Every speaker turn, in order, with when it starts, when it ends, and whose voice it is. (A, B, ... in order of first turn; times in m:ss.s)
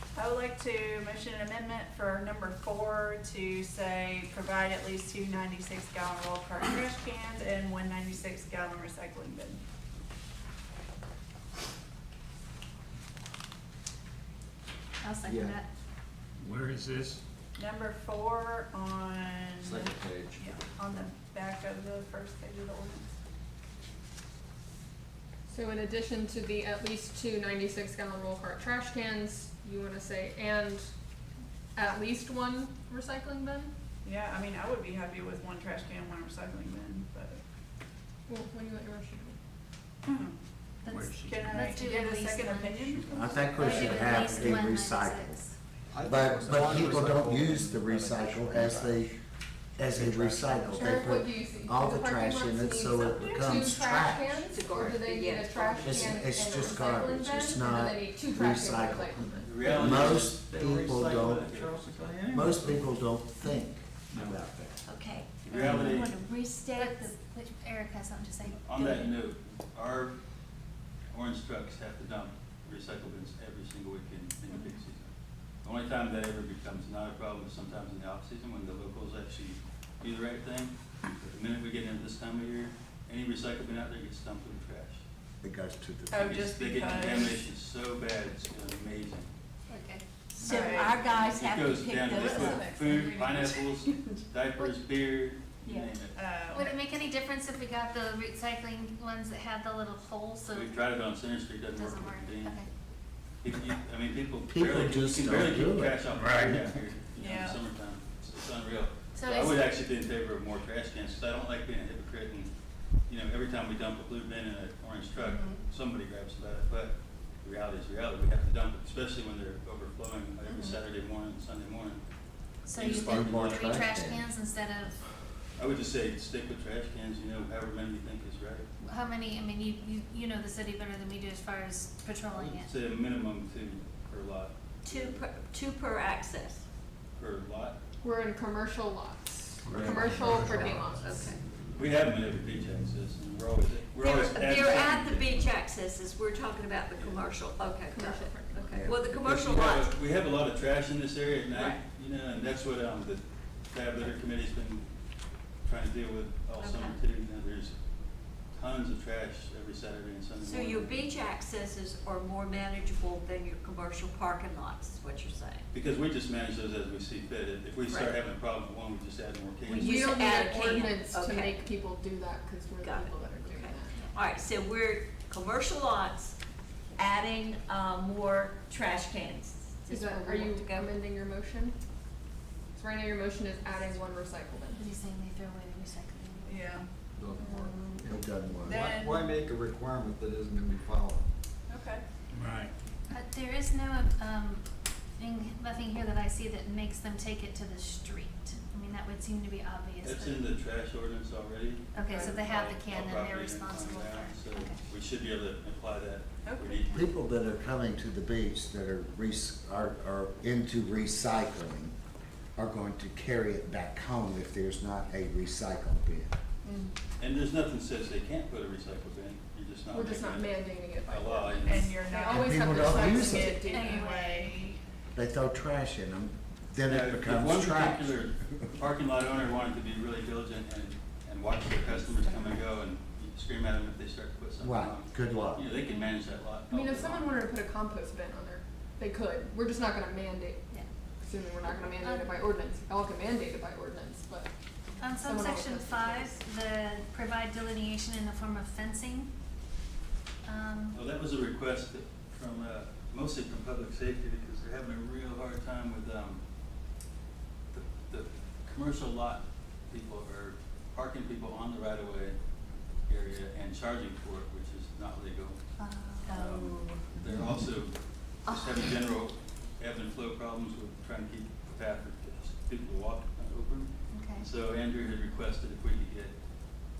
0:00.1-0:09.6 A
0:15.0-0:15.7 B
0:15.2-0:15.6 C
0:16.4-0:17.2 D
0:17.6-0:23.0 A
0:19.6-0:20.5 C
0:25.5-0:30.9 E
0:31.7-0:33.7 E
0:34.0-0:37.4 A
0:38.3-0:39.4 E
0:40.1-0:40.3 A
0:40.8-0:45.5 B
0:40.8-0:41.8 D
0:41.2-0:43.8 A
0:43.1-0:45.4 F
0:43.8-0:44.1 C
0:45.9-0:49.1 C
0:46.0-0:49.1 F
0:49.8-0:54.4 F
0:49.9-0:50.8 C
0:50.7-0:59.5 E
0:52.9-0:53.6 A
0:54.5-0:56.3 G
0:55.8-1:01.5 F
0:59.4-1:02.5 H
0:59.6-1:02.9 C
1:02.3-1:04.8 F
1:04.1-1:04.4 C
1:04.8-1:07.1 G
1:05.4-1:06.1 H
1:05.5-1:06.0 F
1:06.7-1:09.1 B
1:08.6-1:10.2 H
1:11.1-1:15.1 H
1:15.6-1:25.0 H
1:25.4-1:26.4 F
1:26.1-1:27.4 A
1:26.1-1:29.3 H
1:29.7-1:30.0 B
1:30.3-1:34.1 G
1:30.4-1:31.0 A
1:30.5-1:36.2 H
1:32.1-1:33.3 A
1:35.6-1:35.9 G
1:36.1-1:36.7 A
1:36.5-1:40.8 B
1:40.5-1:42.6 H
1:41.7-1:42.7 B
1:43.4-1:52.5 H
1:44.5-1:46.0 F
1:46.1-1:46.7 D
1:47.2-1:47.6 A
1:49.1-1:49.7 B
1:53.1-2:02.0 H
2:02.6-2:05.0 B
2:02.7-2:03.8 H
2:02.8-2:04.3 F
2:05.6-2:08.7 H
2:08.8-2:12.7 B
2:12.3-2:15.3 H
2:14.8-2:16.6 G
2:17.1-2:17.8 H
2:18.0-2:21.4 E
2:19.6-2:21.0 D
2:19.7-2:20.2 F
2:20.4-2:21.4 G
2:21.7-2:25.5 H
2:24.0-2:29.9 G
2:26.9-2:27.4 H
2:27.9-2:29.0 E
2:29.1-2:34.9 H
2:31.6-2:31.8 G
2:35.6-2:37.8 H
2:36.6-2:37.0 G
2:38.5-2:41.0 H
2:40.4-2:45.6 G
2:45.7-2:50.8 H
2:49.7-2:54.1 E
2:49.7-2:51.6 G
2:52.8-2:56.3 G
2:57.0-3:00.9 G
2:59.9-3:01.8 E
3:02.7-3:04.9 E
3:04.7-3:06.8 B
3:06.4-3:06.9 A
3:07.2-3:11.2 C
3:07.4-3:07.8 G
3:08.0-3:08.9 F
3:08.6-3:09.3 A
3:11.7-3:12.0 A
3:12.3-3:12.7 D
3:13.1-3:14.6 B
3:15.2-3:20.5 B
3:20.0-3:27.2 H
3:21.9-3:24.8 B
3:22.1-3:22.4 A
3:26.4-3:26.8 A
3:26.9-3:31.9 F
3:32.6-3:36.3 F
3:36.6-3:36.9 A
3:37.2-3:42.0 H
3:39.9-3:44.1 E
3:41.6-3:44.8 A
3:42.3-3:43.6 F
3:43.1-3:44.6 B
3:45.1-3:48.2 F
3:46.9-3:57.4 H
3:51.9-3:52.6 B
3:54.6-3:55.7 F
3:55.8-3:56.1 B
3:56.7-4:00.6 E
4:01.2-4:04.5 E
4:01.6-4:02.4 B
4:05.0-4:09.3 B
4:05.2-4:06.3 E
4:10.4-4:11.0 B
4:10.9-4:16.4 H
4:17.7-4:22.4 H
4:23.1-4:25.6 H
4:25.8-4:26.6 B
4:26.2-4:36.4 H
4:26.4-4:27.2 G
4:34.1-4:34.5 B